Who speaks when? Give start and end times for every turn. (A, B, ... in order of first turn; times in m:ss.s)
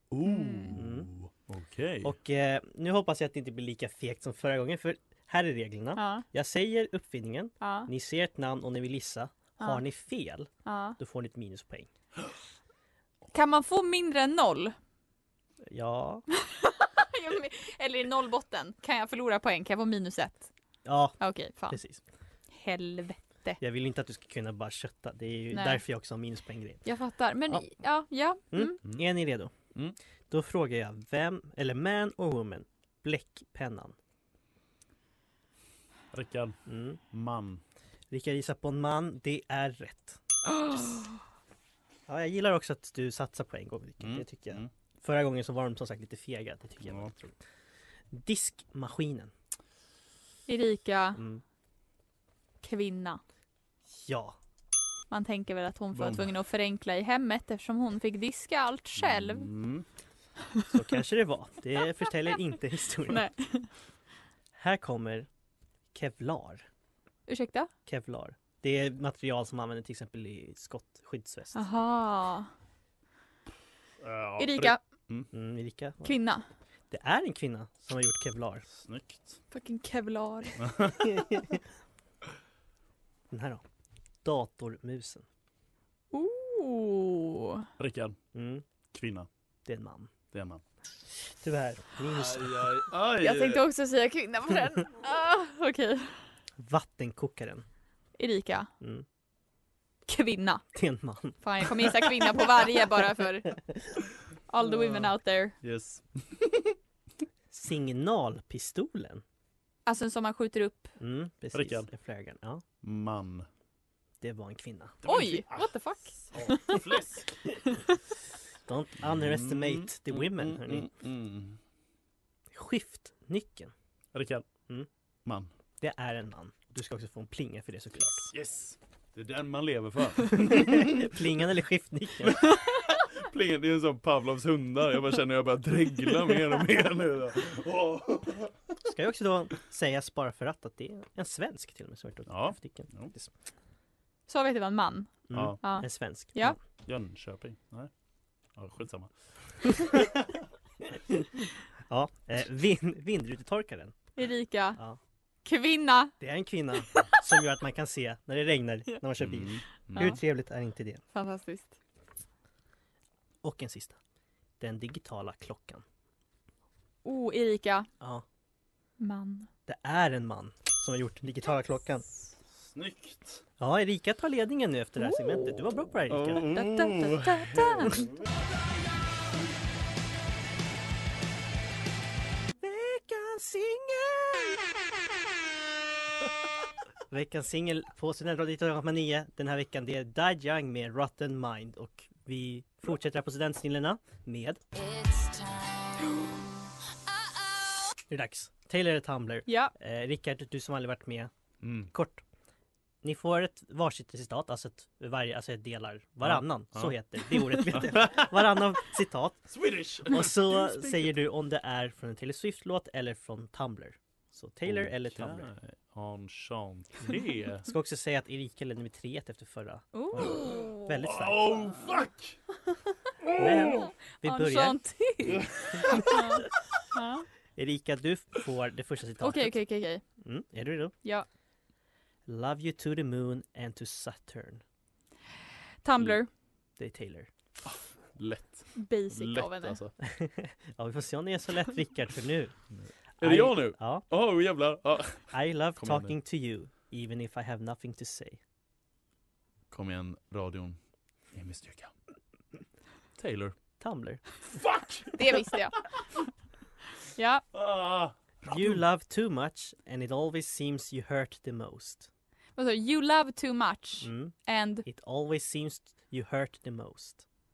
0:00.1-0:02.1 A
0:00.2-0:00.8 B
0:00.7-0:01.1 C
0:02.0-0:11.9 C
0:06.0-0:06.2 B
0:07.6-0:07.9 B
0:10.6-0:11.0 B
0:13.3-0:14.8 B
0:15.7-0:16.2 C
0:16.5-0:20.5 B
0:20.8-0:22.0 C
0:21.2-0:21.8 B
0:22.5-0:23.6 B
0:23.6-0:26.8 C
0:25.5-0:25.8 B
0:26.8-0:28.8 B
0:28.5-0:29.5 C
0:30.3-0:34.0 C
0:36.1-0:36.6 A
0:36.7-0:37.0 C
0:37.1-0:37.6 A
0:38.1-0:40.2 C
0:42.1-0:47.3 C
0:44.0-0:44.7 A
0:46.8-0:47.2 A
0:48.1-0:49.3 C
0:50.5-0:51.2 B
0:51.1-0:51.4 C
0:52.6-0:53.2 B
0:53.9-0:54.4 C
0:55.1-0:59.5 B
0:55.9-0:56.3 A
0:59.0-0:59.8 A
1:00.7-1:03.3 C
1:03.1-1:03.7 B
1:04.5-1:05.3 C
1:05.9-1:06.6 C
1:07.3-1:07.7 B
1:07.8-1:11.6 C
1:11.5-1:12.5 B
1:14.0-1:15.3 A
1:14.4-1:14.8 B
1:15.3-1:16.2 C
1:16.0-1:16.4 B
1:16.9-1:18.6 C
1:18.7-1:19.4 A
1:19.5-1:20.6 B
1:20.6-1:21.0 A
1:21.0-1:21.6 C
1:23.3-1:23.6 C
1:24.2-1:25.2 C
1:26.1-1:27.7 B
1:27.8-1:28.2 A
1:28.3-1:28.6 C
1:28.9-1:29.3 A
1:29.6-1:30.1 C
1:30.3-1:30.6 A
1:31.1-1:32.8 C
1:32.1-1:33.6 A
1:33.2-1:36.2 B
1:36.6-1:37.6 C
1:38.2-1:38.7 B
1:38.8-1:39.0 C
1:40.1-1:40.6 B
1:40.7-1:41.4 C
1:41.4-1:43.5 B
1:43.5-1:44.0 C
1:44.5-1:45.5 B
1:44.6-1:45.1 A
1:45.6-1:46.8 A
1:47.5-1:49.2 C
1:49.8-1:50.9 B
1:51.0-1:52.6 C
1:51.5-1:51.9 A
1:52.8-1:53.5 A
1:54.2-1:55.0 C
1:55.0-1:57.4 A
1:55.0-1:56.8 B
1:58.6-2:00.9 C
1:59.0-2:01.6 A
2:02.5-2:03.7 C
2:04.1-2:04.5 A
2:05.8-2:08.2 C
2:08.2-2:11.2 A
2:10.4-2:12.4 C
2:12.2-2:18.5 A
2:18.8-2:23.3 C
2:22.3-2:23.1 A
2:24.3-2:26.6 B
2:25.3-2:26.6 C
2:25.3-2:25.6 A
2:26.8-2:27.9 A
2:28.6-2:30.2 A
2:31.0-2:34.0 C
2:34.2-2:34.8 B
2:35.4-2:36.1 B
2:36.2-2:41.0 C
2:39.2-2:40.2 A
2:41.1-2:41.8 B
2:43.4-2:44.0 C
2:44.6-2:45.8 C
2:47.0-2:47.9 B
2:49.0-2:49.5 B
2:49.7-2:52.1 C
2:52.6-2:53.4 A
2:53.6-2:56.5 C
2:55.0-2:55.5 B
2:56.1-2:58.2 A
2:56.4-2:58.0 B
3:02.6-3:04.7 C
3:07.1-3:14.6 C
3:18.1-3:21.3 C
3:19.4-3:19.7 B
3:21.6-3:21.9 A
3:21.8-3:22.2 C
3:23.0-3:29.5 C
3:26.2-3:27.0 A
3:27.5-3:28.4 A
3:29.5-3:31.1 A
3:30.1-3:35.5 C
3:34.6-3:37.7 A
3:37.6-3:41.6 C
3:39.9-3:41.0 B
3:40.2-3:42.4 A
3:43.2-3:43.9 A
3:43.4-3:44.8 C
3:43.7-3:47.2 B
3:45.3-3:46.1 A
3:45.8-3:46.2 C
3:47.6-3:49.6 C
3:49.2-3:50.0 B
3:50.2-3:50.9 C
3:52.3-3:54.6 C
3:55.8-3:56.3 B
3:56.8-3:57.3 C
3:57.6-3:59.9 A
3:58.7-3:59.8 B
4:00.0-4:02.5 C
4:02.8-4:06.1 A
4:03.2-4:04.0 C
4:05.3-4:08.4 C
4:09.7-4:10.8 A
4:11.3-4:11.9 A
4:13.2-4:13.5 A
4:13.8-4:14.2 C
4:14.5-4:15.2 A
4:15.1-4:15.8 B
4:17.2-4:17.4 B
4:17.5-4:18.8 A
4:18.4-4:22.1 C
4:22.6-4:24.8 B
4:24.0-4:24.3 C
4:24.8-4:27.2 C